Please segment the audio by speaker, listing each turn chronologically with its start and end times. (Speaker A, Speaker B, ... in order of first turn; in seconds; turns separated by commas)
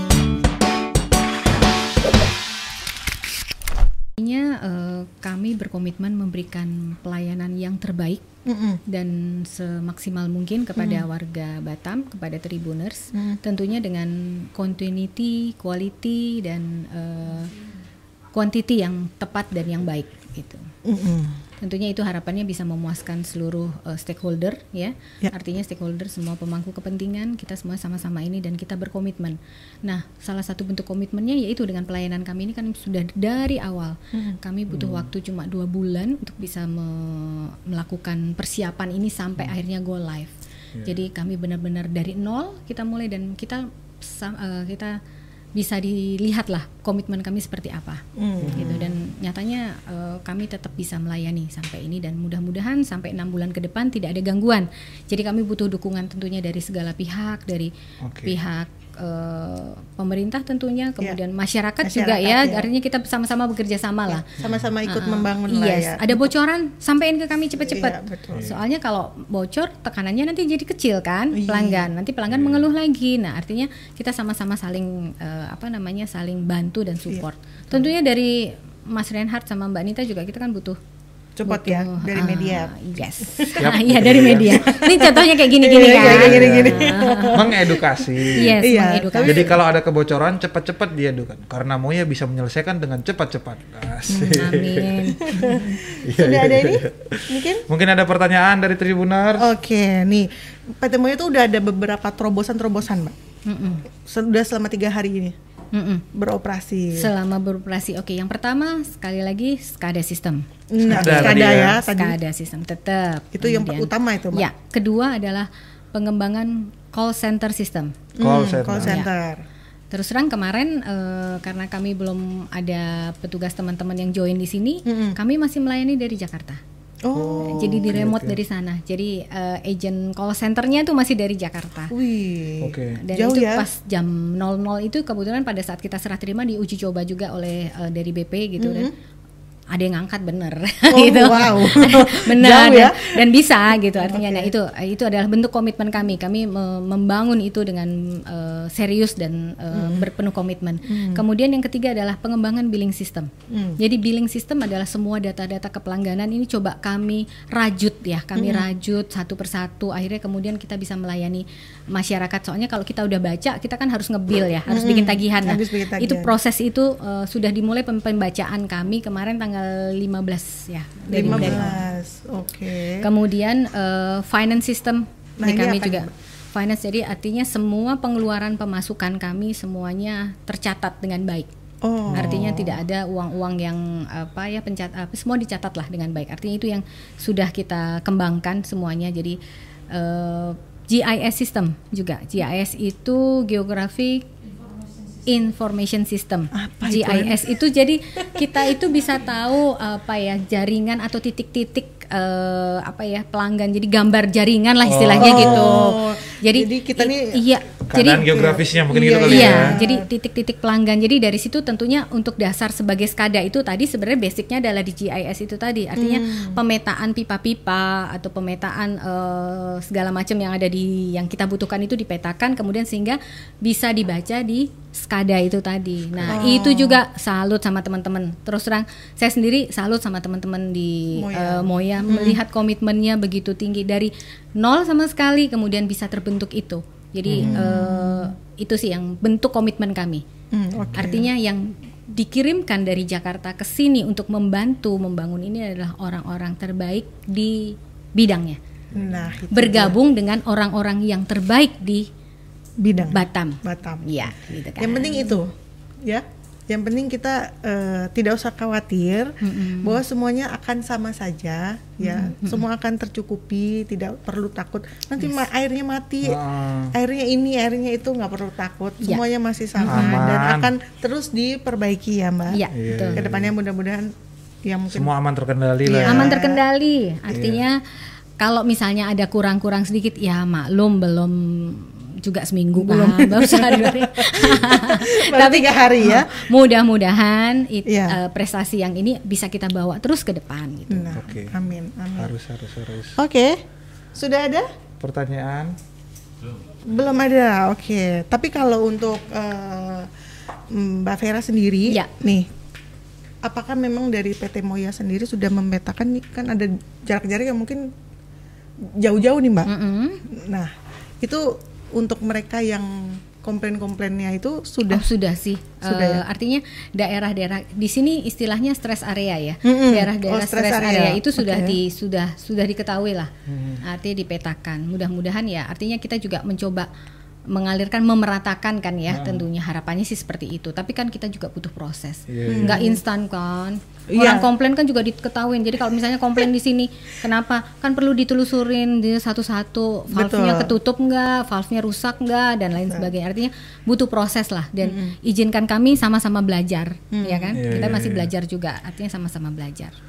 Speaker A: 4.2-8.2, Speaker B: 8.5-8.8, Speaker A: 8.9-17.5, Speaker B: 10.8-11.1, Speaker B: 13.1-13.4, Speaker A: 18.3-20.7, Speaker B: 20.9-21.4, Speaker A: 21.6-45.0, Speaker C: 34.7-35.1, Speaker A: 45.6-57.7, Speaker B: 48.2-49.0, Speaker C: 48.4-48.9, Speaker C: 58.0-58.4, Speaker A: 58.2-64.3, Speaker B: 61.8-62.7, Speaker B: 64.1-66.3, Speaker A: 64.9-80.8, Speaker B: 67.6-68.5, Speaker C: 68.3-68.6, Speaker B: 71.3-71.9, Speaker C: 72.3-72.7, Speaker B: 81.4-83.7, Speaker A: 81.5-87.5, Speaker C: 83.6-84.8, Speaker B: 84.5-89.6, Speaker C: 85.8-88.6, Speaker A: 88.3-89.5, Speaker C: 89.2-99.5, Speaker B: 94.1-94.6, Speaker A: 94.3-95.8, Speaker B: 95.2-97.7, Speaker B: 99.4-103.2, Speaker A: 103.5-103.8, Speaker B: 104.0-105.4, Speaker A: 105.7-106.0, Speaker B: 106.1-107.1, Speaker A: 106.9-118.0, Speaker B: 110.7-112.2, Speaker C: 110.9-111.8, Speaker B: 113.3-114.5, Speaker B: 118.2-119.4, Speaker C: 118.2-119.0, Speaker A: 119.9-126.6, Speaker B: 124.9-125.2, Speaker B: 127.0-127.9, Speaker C: 127.2-128.4, Speaker A: 127.4-131.9, Speaker B: 131.9-133.7, Speaker C: 132.6-133.0, Speaker A: 133.0-138.9, Speaker B: 138.6-138.9, Speaker A: 139.7-171.8, Speaker B: 140.9-143.3, Speaker B: 143.8-144.5, Speaker B: 149.7-150.1, Speaker B: 150.8-151.2, Speaker B: 153.5-153.8, Speaker B: 158.3-158.7, Speaker B: 164.7-166.3, Speaker B: 171.1-173.1, Speaker A: 173.0-181.5, Speaker B: 175.4-176.1, Speaker B: 181.8-182.8, Speaker C: 182.1-182.6, Speaker A: 182.1-189.4, Speaker A: 189.9-194.3, Speaker A: 195.2-208.4, Speaker B: 196.5-197.4, Speaker B: 198.4-198.7, Speaker C: 204.8-205.9, Speaker B: 205.2-207.4, Speaker C: 207.9-209.8, Speaker B: 208.2-210.1, Speaker A: 209.3-240.2, Speaker B: 216.0-216.6, Speaker B: 226.3-227.0, Speaker B: 231.2-232.4, Speaker C: 237.3-237.7, Speaker B: 237.4-238.3, Speaker B: 240.5-241.3, Speaker C: 240.8-241.1, Speaker A: 240.9-248.6, Speaker C: 248.9-249.4, Speaker B: 248.9-250.0, Speaker A: 249.5-252.1, Speaker B: 252.8-272.6, Speaker A: 253.1-255.4, Speaker A: 259.4-260.0, Speaker A: 262.0-262.6, Speaker C: 266.2-267.0, Speaker A: 269.8-270.2, Speaker C: 269.8-270.7, Speaker A: 272.5-273.2, Speaker C: 272.7-273.5, Speaker B: 273.1-274.1, Speaker B: 274.6-275.1, Speaker C: 274.9-276.3, Speaker B: 275.8-276.6, Speaker A: 276.1-277.8, Speaker C: 277.3-277.6, Speaker A: 278.4-291.2, Speaker B: 282.8-286.5, Speaker B: 287.9-288.2, Speaker B: 290.9-292.3, Speaker C: 291.1-291.5, Speaker C: 292.2-293.2, Speaker B: 293.2-293.6, Speaker B: 294.1-294.7, Speaker C: 295.0-295.8, Speaker B: 296.8-300.1, Speaker B: 300.7-302.5, Speaker B: 303.4-307.9, Speaker B: 308.8-309.7, Speaker A: 309.7-310.2, Speaker B: 310.3-315.1, Speaker A: 314.9-326.9, Speaker B: 315.8-316.2, Speaker B: 319.6-321.8, Speaker C: 323.5-323.8, Speaker A: 327.5-349.9, Speaker C: 329.1-329.4, Speaker C: 332.3-332.8, Speaker B: 332.5-333.0, Speaker B: 334.1-334.5, Speaker B: 340.1-340.7, Speaker B: 344.8-345.1, Speaker B: 347.1-347.9, Speaker C: 347.6-348.3